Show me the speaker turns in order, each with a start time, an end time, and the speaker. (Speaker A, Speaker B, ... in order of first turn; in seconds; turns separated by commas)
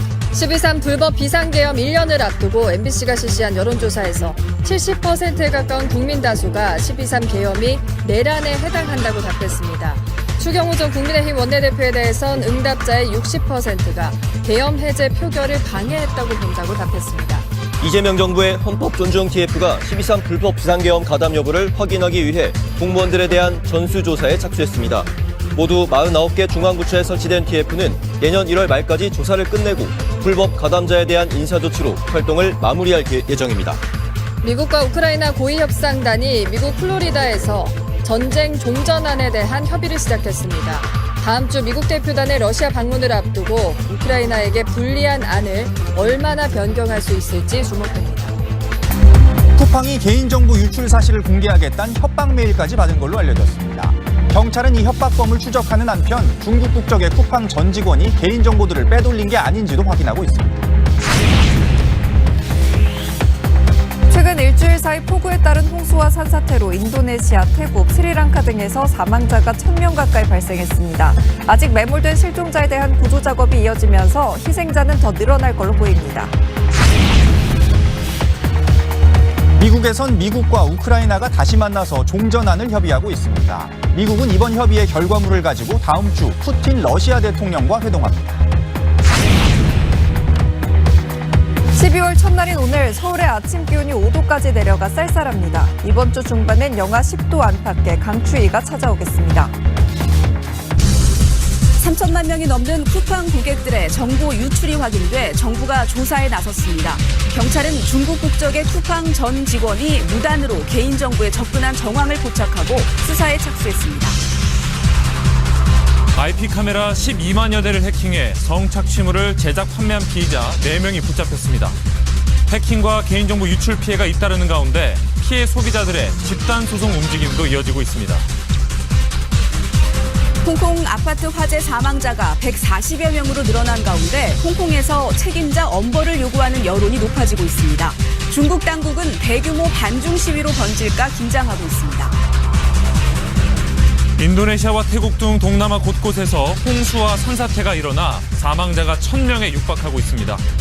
Speaker A: 0.3-17.5, Speaker B: 17.8-33.8, Speaker A: 34.4-48.4, Speaker C: 49.5-60.6, Speaker D: 64.1-76.3, Speaker C: 79.6-88.4, Speaker D: 91.8-99.5, Speaker E: 101.8-114.2, Speaker F: 116.2-121.8, Speaker F: 122.5-128.3, Speaker E: 130.4-142.2, Speaker F: 144.2-150.4